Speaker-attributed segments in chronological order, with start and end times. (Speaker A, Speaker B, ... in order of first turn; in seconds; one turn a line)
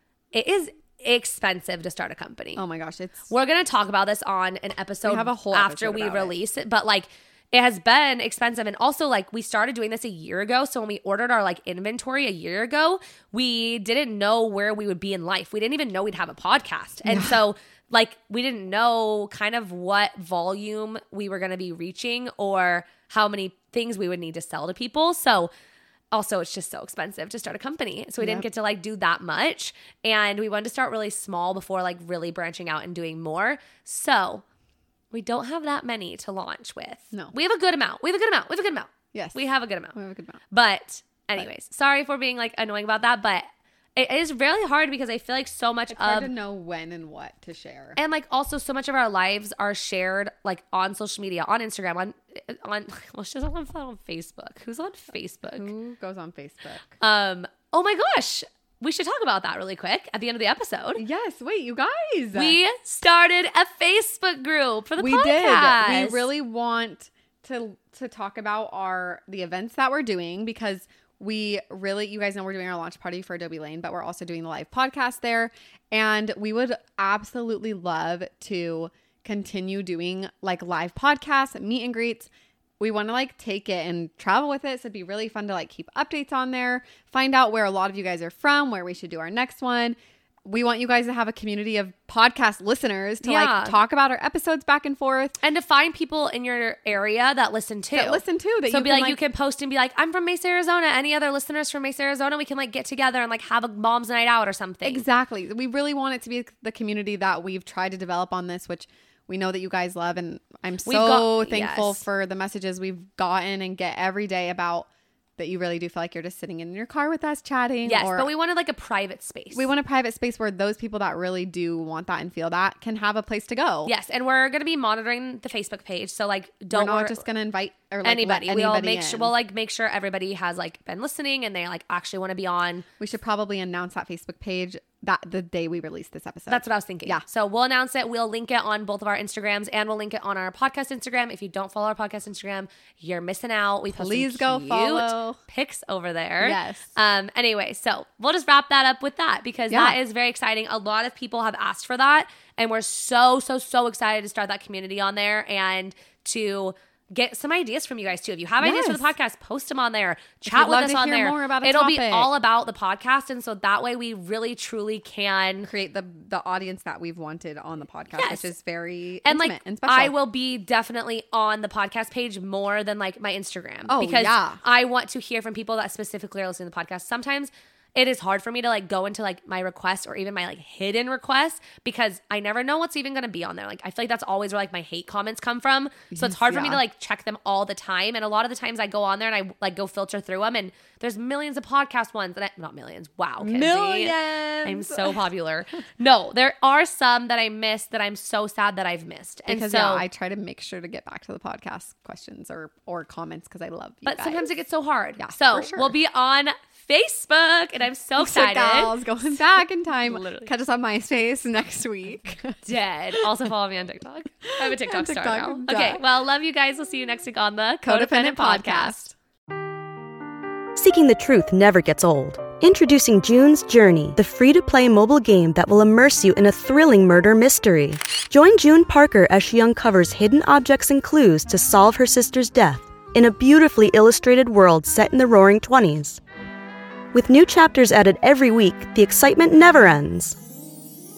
Speaker A: 0.3-2.6
Speaker B: 2.5-3.3
Speaker A: 3.3-25.5
Speaker B: 5.0-6.3
Speaker B: 17.1-17.3
Speaker A: 26.1-34.4
Speaker B: 28.2-28.4
Speaker A: 35.1-40.0
Speaker B: 39.1-40.4
Speaker A: 40.5-46.3
Speaker B: 45.9-48.0
Speaker A: 48.0-55.7
Speaker B: 55.6-56.9
Speaker A: 57.0-61.0
Speaker B: 61.0-62.6
Speaker A: 62.3-66.3
Speaker B: 65.0-95.4
Speaker A: 93.2-93.8
Speaker A: 95.4-105.0
Speaker B: 97.9-99.2
Speaker B: 104.8-118.3
Speaker A: 110.8-112.0
Speaker A: 117.8-119.7
Speaker B: 119.5-123.9
Speaker A: 123.8-127.3
Speaker B: 126.7-129.3
Speaker A: 128.0-132.8
Speaker B: 133.0-137.2
Speaker A: 136.5-165.7
Speaker B: 143.9-145.4
Speaker B: 146.4-146.9
Speaker B: 149.7-150.0
Speaker B: 158.6-159.1
Speaker B: 160.4-162.3
Speaker B: 165.7-170.1
Speaker A: 168.1-168.5
Speaker A: 169.2-200.1
Speaker B: 173.9-174.6
Speaker B: 186.1-186.8
Speaker B: 193.4-195.2
Speaker B: 199.5-204.5
Speaker A: 204.1-209.0
Speaker B: 205.2-205.9
Speaker B: 208.2-212.6
Speaker A: 210.0-210.5
Speaker A: 212.6-219.0
Speaker B: 214.6-216.0
Speaker B: 217.8-219.1
Speaker C: 220.8-236.2
Speaker C: 237.1-240.4